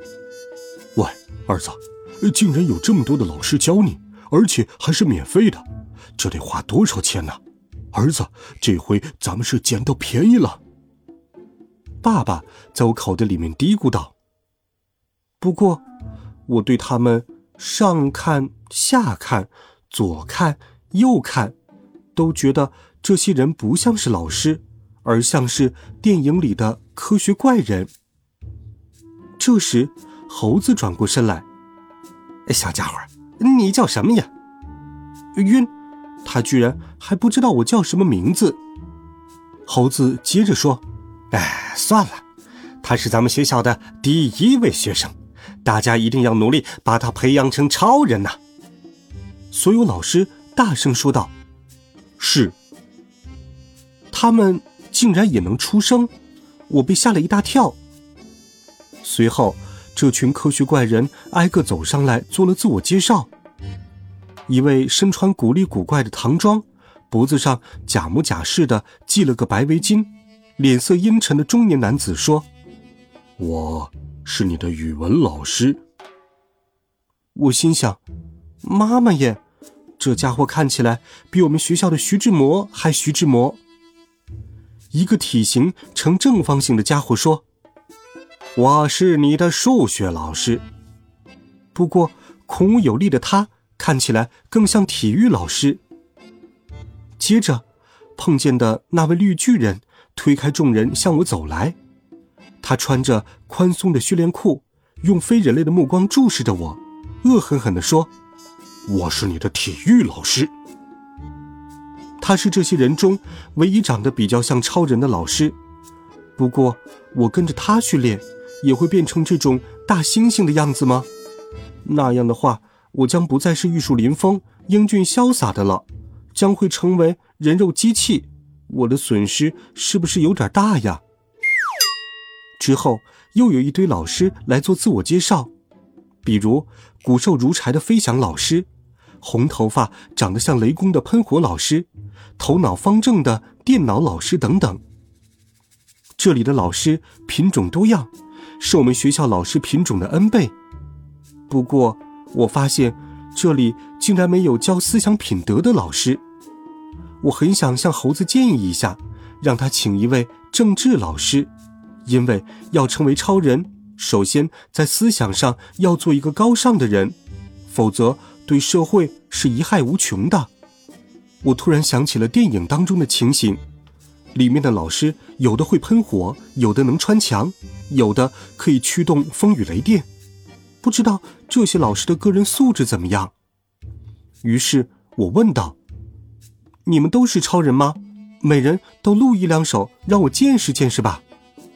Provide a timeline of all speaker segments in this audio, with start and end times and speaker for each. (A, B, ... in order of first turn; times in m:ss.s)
0:01.0-0:07.4 A
0:07.9-0:10.6 A
0:12.0-0:14.1 A
0:15.4-0:15.8 A
0:16.5-0:21.6 A
0:22.2-0:27.9 A
0:29.4-0:31.5 A
0:32.5-0:34.3 A
0:35.3-0:35.7 A
0:36.2-0:38.6 A
0:39.7-0:42.2 A
0:42.8-0:48.4 A
0:49.5-0:51.3 A
0:52.2-0:52.6 A
0:54.1-0:56.1 A
0:56.7-0:57.8 A
0:59.0-1:03.3 A
1:04.5-1:12.5 A
1:13.4-1:15.8 A
1:17.4-1:18.0 A
1:18.6-1:19.4 A
1:20.0-1:23.6 A
1:24.9-1:27.4 A
1:28.6-1:30.6 A
1:31.7-1:35.8 A
1:37.2-1:37.6 A
1:38.2-1:41.8 A
1:42.6-1:48.1 A
1:48.9-1:50.5 A
1:52.2-1:55.6 A
1:56.4-2:01.1 A
2:01.8-2:11.0 A
2:12.6-2:15.5 A
2:16.2-2:18.7 A
2:19.2-2:24.8 A
2:26.2-2:30.5 A
2:31.5-2:36.2 A
2:37.2-2:41.5 A
2:42.1-2:50.5 A
2:51.4-2:53.6 A
2:54.3-3:00.1 A
3:00.8-3:03.3 A
3:04.4-3:05.8 A
3:06.8-3:11.2 A